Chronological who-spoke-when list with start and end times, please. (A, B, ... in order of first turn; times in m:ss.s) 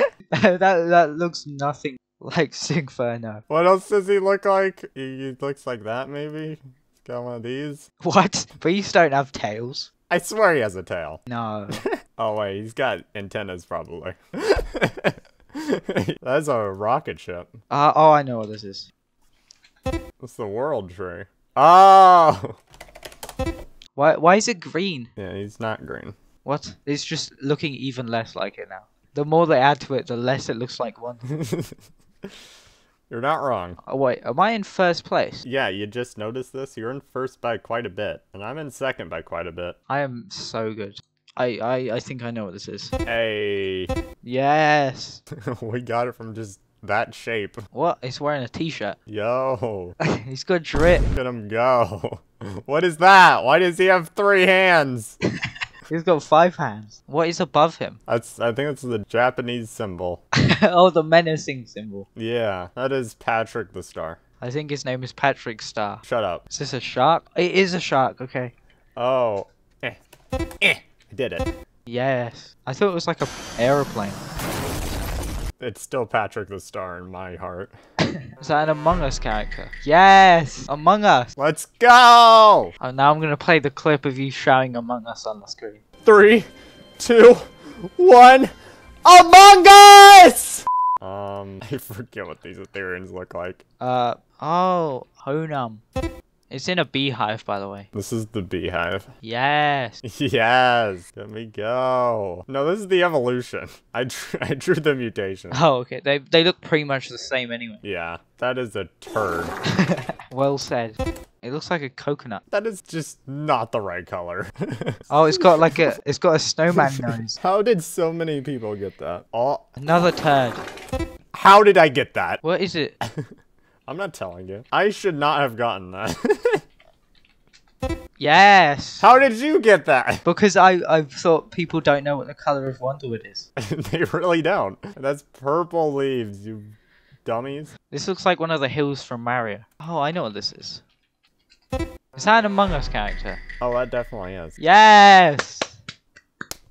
0:00.3-0:03.4 A
0:03.5-0:07.9 B
0:08.0-0:09.9 A
0:10.1-0:17.6 B
0:11.3-0:11.8 A
0:17.7-0:18.9 A
0:20.2-0:22.6 B
0:24.0-0:25.1 A
0:25.2-0:26.2 B
0:26.4-0:31.2 A
0:31.3-0:31.8 B
0:33.1-0:33.8 B
0:33.9-0:35.4 A
0:35.4-0:39.8 B
0:39.9-0:42.9 A
0:43.1-0:43.9 B
0:44.2-0:45.2 A
0:45.3-0:47.6 B
0:47.7-0:49.0 A
0:49.1-0:50.0 B
0:50.0-0:51.1 A
0:51.1-0:55.2 B
0:55.4-0:58.0 A
0:58.1-1:00.2 B
1:00.4-1:02.1 A
1:02.2-1:04.2 B
1:04.4-1:08.5 A
1:06.0-1:06.4 B
1:09.0-1:10.0 B
1:10.6-1:11.5 B
1:11.9-1:14.2 A
1:15.6-1:17.8 B
1:18.4-1:21.3 A
1:21.4-1:22.7 B
1:22.8-1:25.8 A
1:26.0-1:28.5 B
1:29.0-1:33.6 B
1:33.8-1:35.8 A
1:36.5-1:37.9 A
1:37.9-1:39.1 B
1:39.2-1:40.0 A
1:40.0-1:45.6 B
1:45.5-1:47.8 A
1:47.8-1:49.6 B
1:49.8-1:52.4 A
1:52.5-1:55.9 B
1:55.1-1:57.4 A
1:56.7-2:00.1 B
1:59.8-2:00.6 A
2:01.3-2:02.4 B
2:02.4-2:03.0 A
2:03.0-2:03.3 B
2:03.9-2:06.6 B
2:08.2-2:09.1 A
2:09.0-2:10.2 B
2:10.2-2:13.5 A
2:13.6-2:17.7 B
2:17.9-2:20.8 A
2:22.1-2:23.4 A
2:23.6-2:24.6 B
2:24.6-2:25.8 A